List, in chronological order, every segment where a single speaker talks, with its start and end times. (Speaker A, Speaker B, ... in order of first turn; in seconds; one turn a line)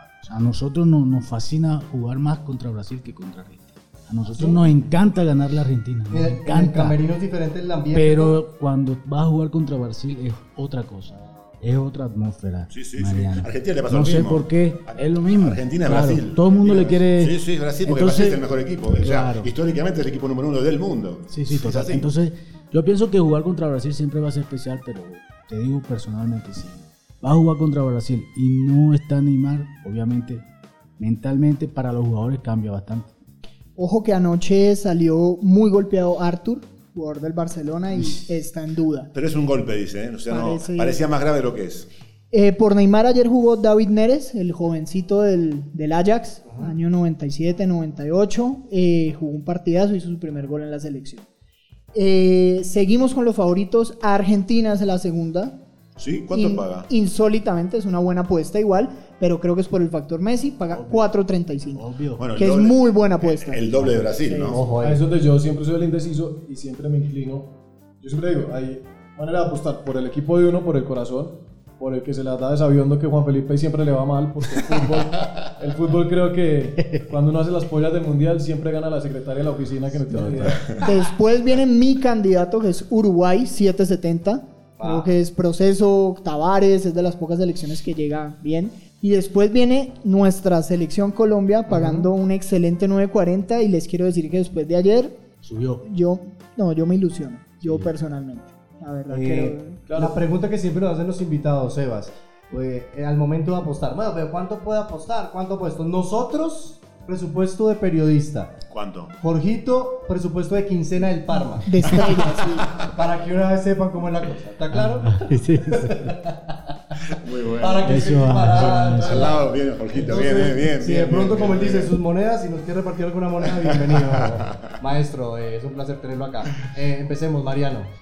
Speaker A: 0.2-7.0
Speaker B: 4.3-4.6
Speaker B: 6.1-8.4
Speaker A: 7.9-18.4
Speaker C: 12.7-22.1
Speaker A: 19.0-19.5
Speaker A: 21.3-30.4
Speaker A: 31.0-33.1
Speaker D: 33.8-39.1
Speaker C: 39.1-41.9
Speaker D: 40.3-41.0
Speaker D: 42.3-51.2
Speaker B: 46.5-46.7
Speaker D: 51.9-55.6
Speaker C: 56.0-56.9
Speaker D: 56.3-64.6
Speaker A: 60.7-61.1
Speaker A: 61.8-62.2
Speaker C: 62.2-64.6
Speaker B: 64.5-65.0
Speaker E: 64.8-80.8
Speaker A: 80.1-80.5
Speaker D: 80.8-95.2
Speaker B: 84.8-85.1
Speaker B: 91.7-92.1
Speaker A: 95.4-95.8
Speaker D: 95.8-99.8
Speaker B: 99.1-108.6
Speaker E: 99.9-100.2
Speaker C: 108.7-109.1
Speaker B: 109.2-127.9
Speaker D: 111.7-112.8
Speaker A: 114.7-116.1
Speaker C: 117.1-121.9
Speaker A: 117.8-119.4
Speaker C: 123.5-124.7